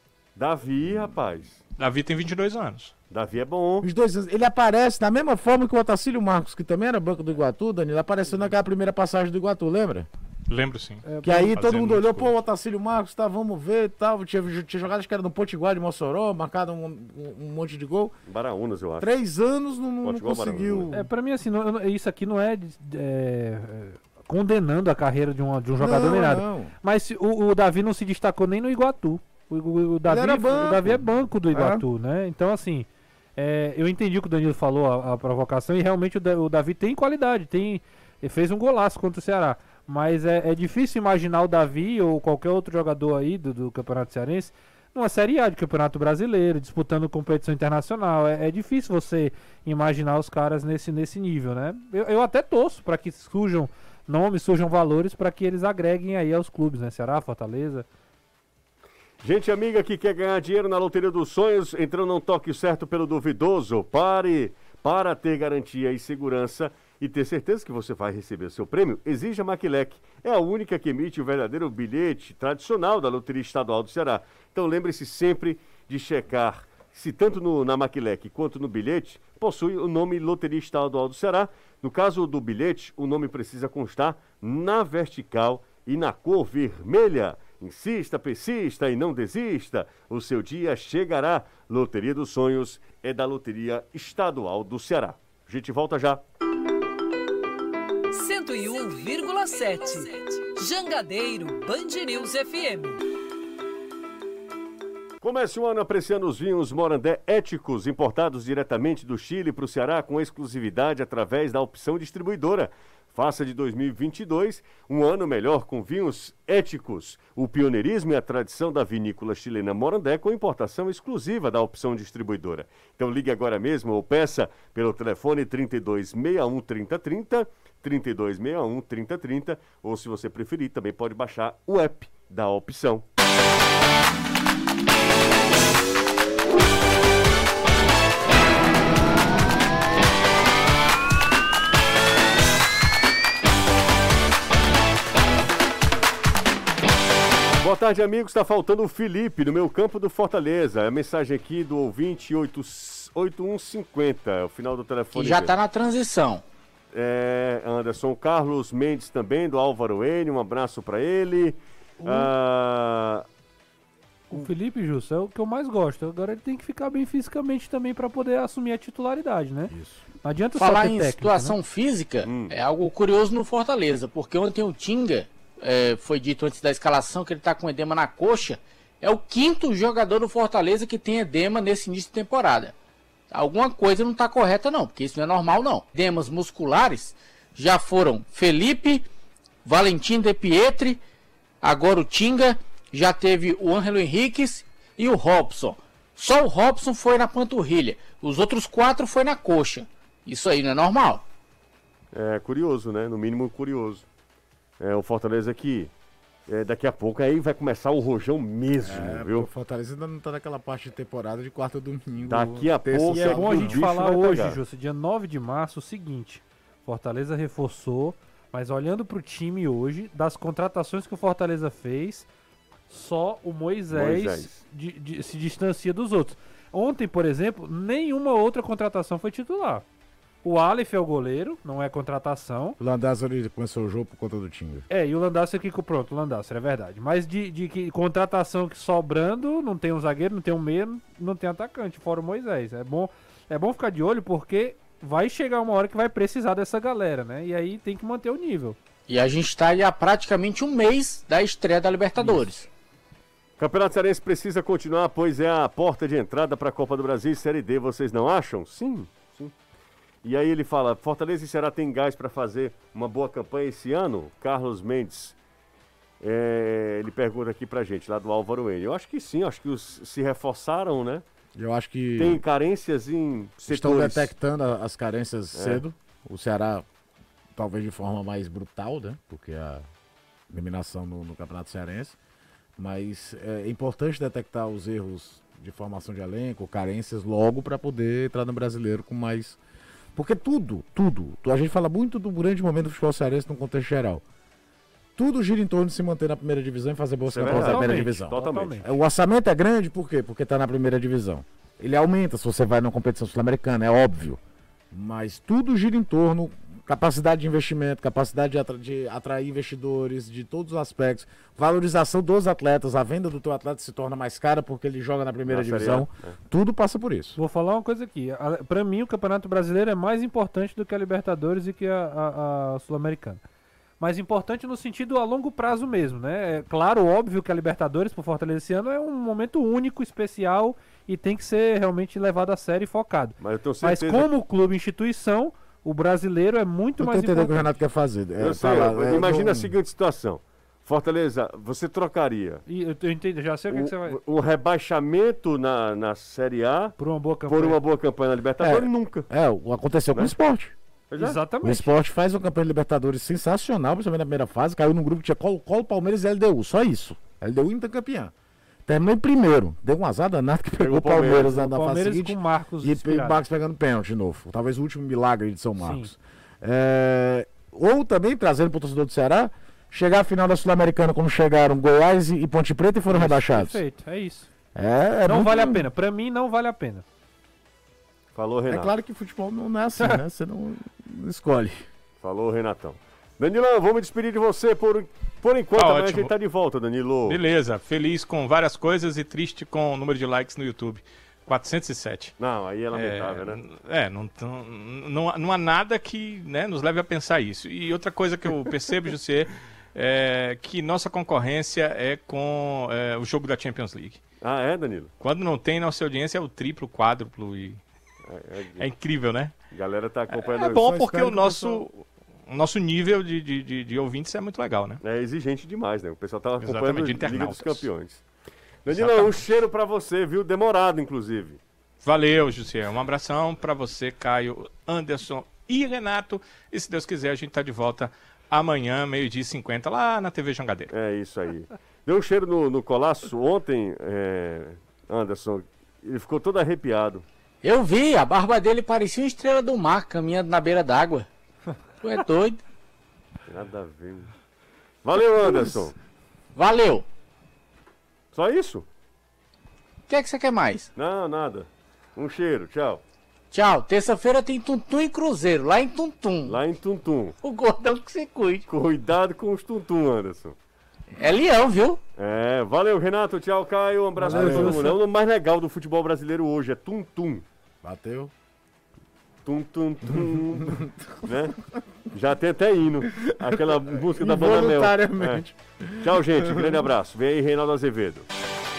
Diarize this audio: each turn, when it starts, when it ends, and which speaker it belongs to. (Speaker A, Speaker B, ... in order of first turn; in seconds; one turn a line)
Speaker A: 0.3-1.6
Speaker B: 1.8-2.9
Speaker A: 3.1-3.9
Speaker C: 3.8-10.1
Speaker B: 10.5-12.3
Speaker D: 11.1-11.5
Speaker C: 11.2-18.1
Speaker A: 18.3-19.1
Speaker C: 19.0-21.1
Speaker A: 20.0-20.9
Speaker D: 20.9-57.9
Speaker C: 25.8-26.7
Speaker C: 30.1-31.8
Speaker A: 59.2-96.2
Speaker E: 98.1-103.0
Speaker A: 105.2-133.0
Speaker A: 147.6-155.5
Speaker F: 155.1-156.4
Speaker A: 156.9-163.2
Speaker D: 162.0-162.3
Speaker D: 164.3-171.6
Speaker C: 169.7-170.0
Speaker F: 170.6-182.7
Speaker A: 172.2-172.6
Speaker F: 183.3-189.1
Speaker F: 189.6-191.0
Speaker F: 191.6-201.2
Speaker A: 202.1-204.0
Speaker A: 204.8-205.9
Speaker A: 206.5-209.4
Speaker C: 208.8-213.8
Speaker A: 212.3-214.6
Speaker D: 213.1-222.3
Speaker D: 222.9-229.8
Speaker A: 223.9-224.6
Speaker D: 230.4-232.8
Speaker C: 232.8-234.8
Speaker D: 234.9-248.8
Speaker F: 249.1-252.7
Speaker A: 252.2-252.4
Speaker A: 253.6-259.5
Speaker A: 260.2-265.4
Speaker A: 266.2-271.2
Speaker C: 271.5-272.4
Speaker A: 272.2-274.3
Speaker C: 273.7-276.8
Speaker A: 275.5-275.8
Speaker C: 277.5-279.9
Speaker C: 280.5-282.2
Speaker C: 282.8-289.6
Speaker C: 290.1-294.2
Speaker C: 295.1-304.4
Speaker A: 297.3-298.8
Speaker D: 297.4-298.9
Speaker C: 304.9-317.4
Speaker A: 315.5-316.3
Speaker D: 317.4-323.4
Speaker D: 324.0-337.7
Speaker A: 333.4-334.3
Speaker C: 337.0-339.7
Speaker A: 338.4-342.6
Speaker D: 342.7-344.2
Speaker A: 343.7-346.9
Speaker D: 347.0-347.8
Speaker A: 347.5-349.3
Speaker C: 348.6-350.7
Speaker A: 351.1-351.4
Speaker D: 351.2-351.9
Speaker C: 351.6-358.3
Speaker C: 358.9-373.8
Speaker A: 360.8-361.6
Speaker D: 361.5-363.4
Speaker D: 365.8-366.1
Speaker D: 373.1-374.5
Speaker C: 374.7-375.9
Speaker D: 375.2-377.0
Speaker A: 378.3-378.9
Speaker C: 378.7-381.9
Speaker A: 382.2-387.4
Speaker B: 385.8-386.3
Speaker B: 387.2-392.3
Speaker A: 392.4-393.6
Speaker B: 392.9-404.2
Speaker A: 404.4-405.1
Speaker B: 405.2-407.8
Speaker A: 408.2-408.9
Speaker B: 408.8-409.6
Speaker A: 409.7-410.9
Speaker B: 410.3-415.0
Speaker C: 410.6-411.8
Speaker A: 415.0-418.2
Speaker B: 416.6-417.9
Speaker A: 418.8-421.6
Speaker B: 418.9-419.4
Speaker B: 422.0-430.9
Speaker A: 430.9-437.2
Speaker F: 437.6-441.3
Speaker F: 442.0-442.6
Speaker A: 443.5-444.3
Speaker A: 445.0-445.9
Speaker F: 446.5-447.1
Speaker A: 448.3-448.9
Speaker F: 450.1-450.9
Speaker A: 450.9-453.0
Speaker F: 453.5-456.6
Speaker A: 456.4-457.4
Speaker F: 457.4-458.7
Speaker A: 458.7-460.6
Speaker F: 461.2-462.0
Speaker A: 462.2-467.4
Speaker D: 464.2-464.9
Speaker C: 464.2-464.9
Speaker C: 467.8-468.3
Speaker A: 469.4-471.6
Speaker C: 470.2-471.1
Speaker A: 472.1-475.4
Speaker C: 473.1-476.9
Speaker A: 476.0-478.3